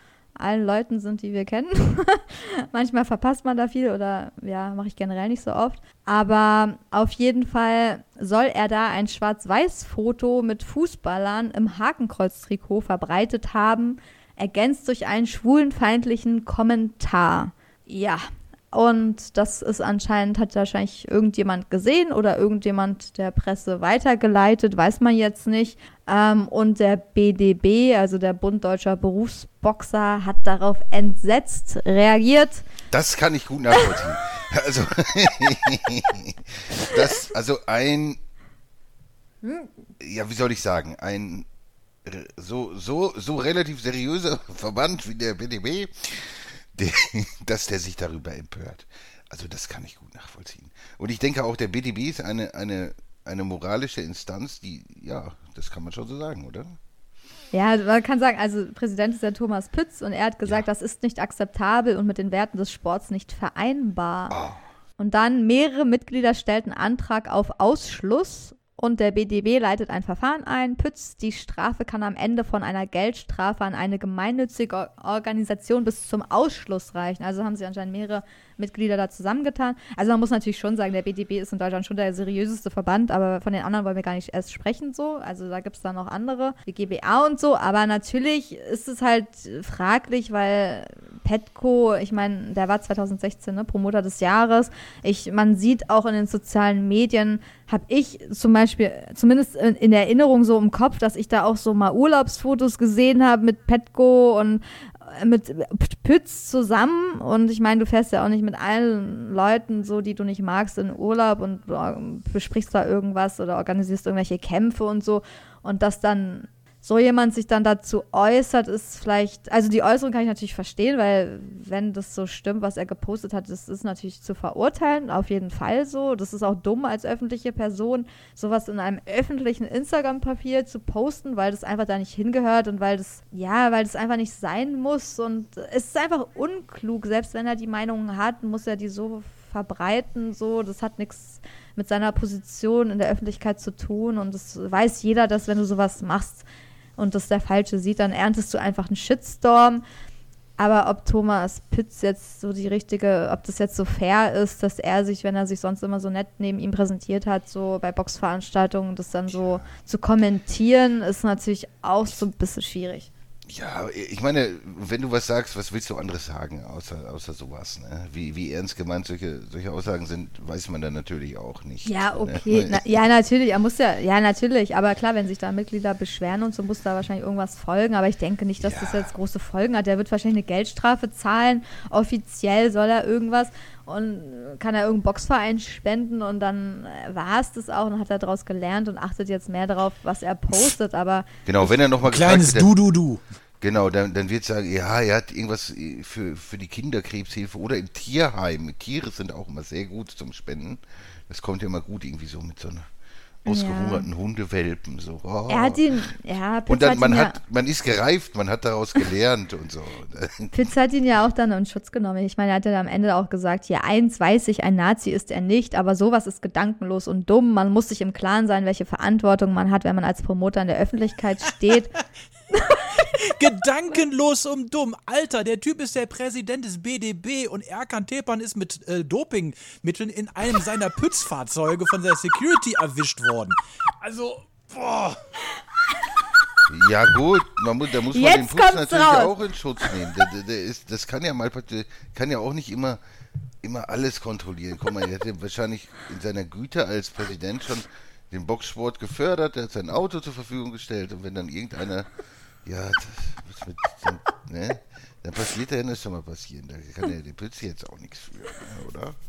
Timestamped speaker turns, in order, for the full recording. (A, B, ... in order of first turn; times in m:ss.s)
0:00.4-0:32.7 A
0:32.9-0:38.2 B
0:39.4-0:39.7 A
0:40.0-0:41.5 B
0:42.0-0:56.8 B
0:57.5-1:04.4 A
1:04.3-1:04.6 B
1:05.0-2:26.5 A
2:27.0-2:29.8 A
2:30.6-2:43.1 A
2:39.4-2:39.7 B
2:43.5-2:52.8 B
2:51.8-3:11.3 A
2:58.6-2:59.1 B
3:11.5-3:12.7 B
3:12.0-3:13.2 C
3:13.6-3:22.9 B
3:23.5-3:25.8 B
3:23.5-3:24.1 A
3:25.5-3:27.4 A
3:26.7-3:30.5 B
3:30.5-3:41.9 A
3:43.0-3:55.2 C
3:56.7-4:03.0 B
3:58.1-3:59.9 A
4:03.6-4:12.1 B
4:12.6-4:19.2 B